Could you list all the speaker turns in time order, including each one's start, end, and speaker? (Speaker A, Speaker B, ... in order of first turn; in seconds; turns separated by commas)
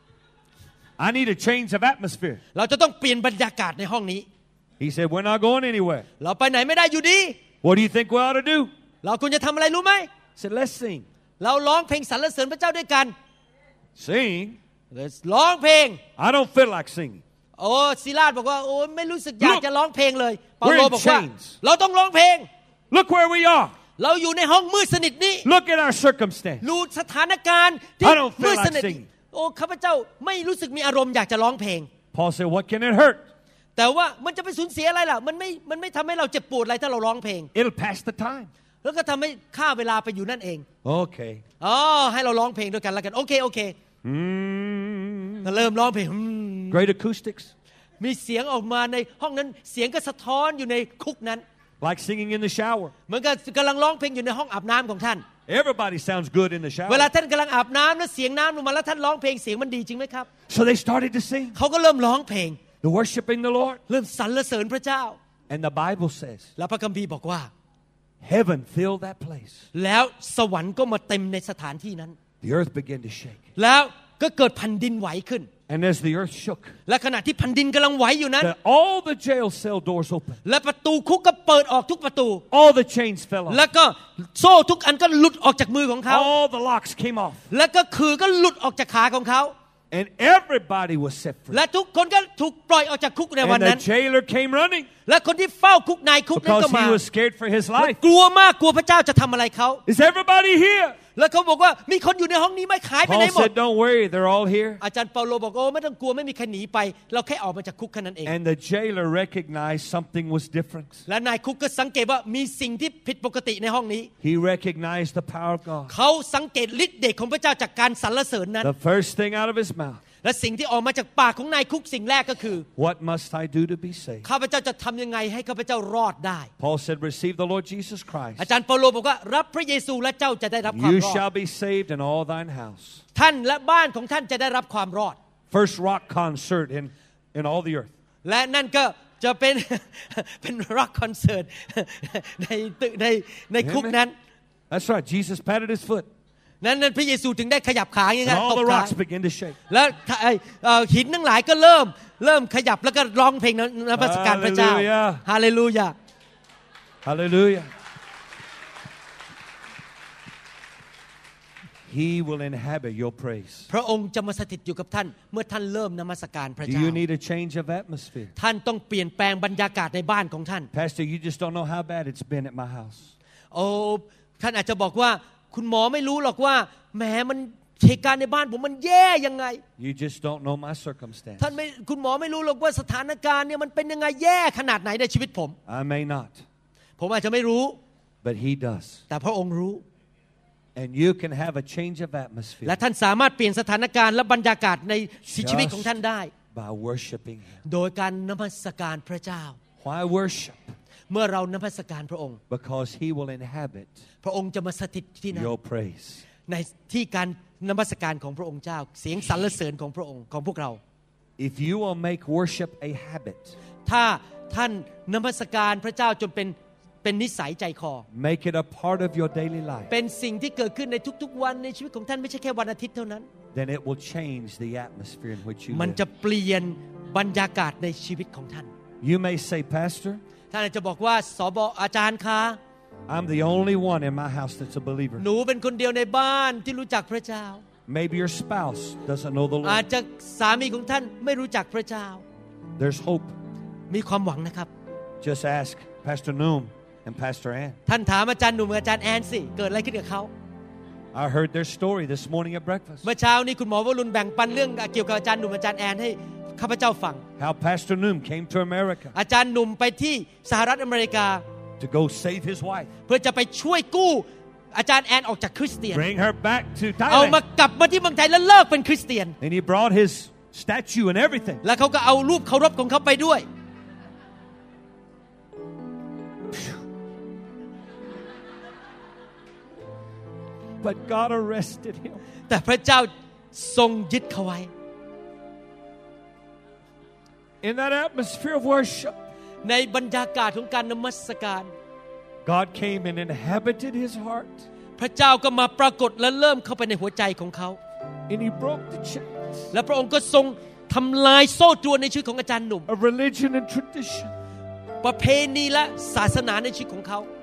Speaker A: 1.0-2.4, Speaker B: 2.5-4.2, Speaker A: 4.8-6.0, Speaker B: 6.2-7.4, Speaker A: 7.6-8.7, Speaker B: 9.0-10.1, Speaker A: 10.3-11.1, Speaker B: 11.4-13.1, Speaker A: 13.9-14.6, Speaker B: 14.9-16.0, Speaker A: 16.2-17.2, Speaker B: 17.6-22.5, Speaker A: 19.4-19.6, Speaker A: 20.6-21.6, Speaker A: 22.9-23.7, Speaker B: 24.0-25.5, Speaker A: 25.4-26.6, Speaker B: 26.6-31.9, Speaker A: 28.0-29.1, Speaker A: 32.1-33.2, Speaker B: 33.8-37.5, Speaker A: 37.5-38.5, Speaker B: 38.8-40.6, Speaker A: 40.8-41.4, Speaker B: 41.6-43.7, Speaker A: 44.0-45.6, Speaker B: 45.4-46.8, Speaker A: 46.7-47.5, Speaker B: 48.0-51.4, Speaker A: 51.8-52.9, Speaker B: 53.1-55.2, Speaker A: 55.5-57.1, Speaker B: 56.9-60.3, Speaker A: 60.5-61.6, Speaker B: 61.5-62.6, Speaker A: 62.8-63.8, Speaker B: 63.9-65.2, Speaker A: 65.5-66.5, Speaker B: 66.6-67.5, Speaker A: 68.2-69.7, Speaker B: 69.7-72.2, Speaker A: 72.4-73.4, Speaker B: 73.5-75.5, Speaker A: 75.7-76.7, Speaker B: 76.9-78.5, Speaker A: 78.4-80.4, Speaker B: 80.4-82.4, Speaker A: 82.5-83.6, Speaker B: 83.5-86.3, Speaker A: 86.1-87.4, Speaker B: 87.5-89.5, Speaker A: 89.9-91.6, Speaker B: 91.5-93.8, Speaker A: 93.4-94.9, Speaker B: 95.0-97.0, Speaker A: 96.3-98.0, Speaker B: 97.8-99.8, Speaker A: 99.9-101.0, Speaker B: 101.2-103.5, Speaker A: 103.0-104.8, Speaker B: 104.8-108.3, Speaker A: 108.2-111.0, Speaker B: 111.1-114.1, Speaker A: 114.2-115.9, Speaker B: 115.9-118.7, Speaker A: 118.6-120.0, Speaker B: 120.2-122.7, Speaker A: 122.8-124.3, Speaker B: 124.2-126.5, Speaker A: 126.6-128.4, Speaker B: 128.4-131.2, Speaker A: 130.7-133.0, Speaker B: 133.1-135.2, Speaker A: 135.5-137.9, Speaker B: 138.2-144.1, Speaker A: 143.6-144.0, Speaker A: 144.7-146.1, Speaker B: 146.6-148.9, Speaker A: 148.2-149.6, Speaker B: 149.7-155.9, Speaker A: 153.9-155.2, Speaker A: 157.0-157.7, Speaker A: 161.8-163.7, Speaker B: 163.7-167.0, Speaker A: 166.6-168.3, Speaker B: 168.4-170.7, Speaker A: 170.7-173.1, Speaker B: 173.5-179.6, Speaker A: 179.8-181.5, Speaker B: 181.4-185.6, Speaker A: 185.7-186.4, Speaker B: 187.0-187.8, Speaker A: 188.2-189.0, Speaker B: 189.1-189.8, Speaker A: 190.8-192.8, Speaker B: 192.6-196.3, Speaker A: 195.3-196.0, Speaker A: 196.5-197.6, Speaker B: 197.6-199.6, Speaker A: 199.8-200.7, Speaker B: 201.1-202.4, Speaker A: 202.5-204.0, Speaker B: 204.2-205.5, Speaker A: 205.3-206.2, Speaker B: 206.4-210.8, Speaker A: 211.4-213.6, Speaker B: 213.8-218.0, Speaker A: 218.1-219.9, Speaker B: 219.9-223.3, Speaker A: 223.5-226.0, Speaker B: 225.7-228.7, Speaker A: 229.0-230.2, Speaker B: 230.5-232.6, Speaker A: 233.1-235.2, Speaker B: 235.2-237.6, Speaker A: 237.9-239.8, Speaker B: 239.6-242.2, Speaker A: 242.8-243.3, Speaker B: 243.9-244.7, Speaker A: 245.2-247.8, Speaker B: 247.9-250.3, Speaker A: 251.1-253.1, Speaker B: 253.0-257.2, Speaker A: 257.4-259.1, Speaker B: 259.1-261.4, Speaker A: 261.8-262.9, Speaker B: 263.1-266.0, Speaker A: 265.9-267.4, Speaker B: 267.1-269.4, Speaker A: 269.4-271.6, Speaker B: 271.6-273.4, Speaker A: 276.5-276.8, Speaker A: 280.8-282.2, Speaker B: 282.5-284.7, Speaker A: 287.6-289.1, Speaker B: 289.6-291.7, Speaker A: 292.4-294.6, Speaker B: 295.0-297.8, Speaker A: 298.3-299.5, Speaker B: 299.7-302.9, Speaker A: 302.9-304.3, Speaker B: 305.0-307.3